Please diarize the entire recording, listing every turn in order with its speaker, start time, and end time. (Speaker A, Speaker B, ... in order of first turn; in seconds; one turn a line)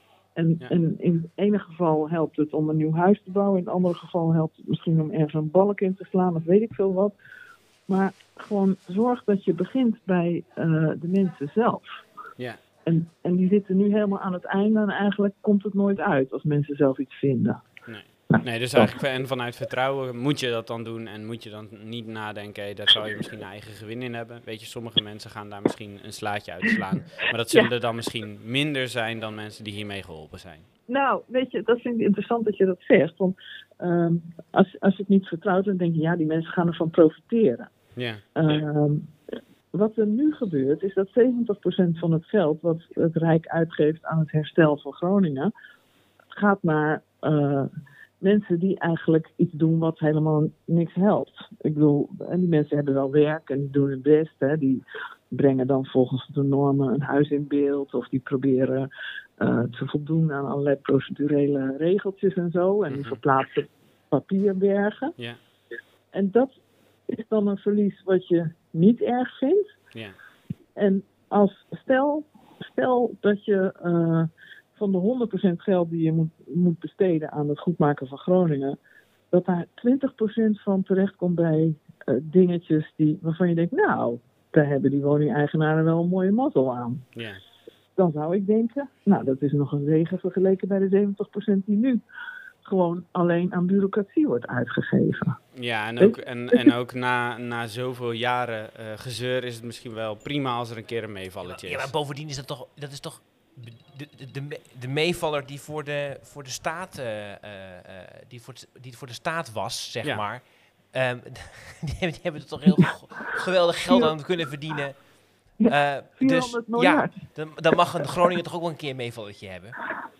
Speaker A: 0.3-7.1
Speaker A: 7.9-12.0
Speaker A: 12.8-17.6
Speaker B: 17.9-30.7
Speaker A: 30.9-37.7
Speaker B: 38.0-38.2
Speaker A: 38.4-39.1
Speaker A: 39.7-45.5
Speaker A: 46.3-47.7
Speaker A: 48.2-65.1
Speaker B: 62.9-63.2
Speaker A: 66.1-66.5
Speaker A: 67.1-69.8
Speaker A: 70.8-78.8
Speaker A: 79.3-87.0
Speaker B: 87.1-87.4
Speaker A: 88.0-92.0
Speaker A: 92.6-95.4
Speaker B: 95.5-101.9
Speaker A: 96.0-96.7
Speaker C: 101.4-115.0
Speaker A: 115.6-117.2
Speaker C: 115.7-119.8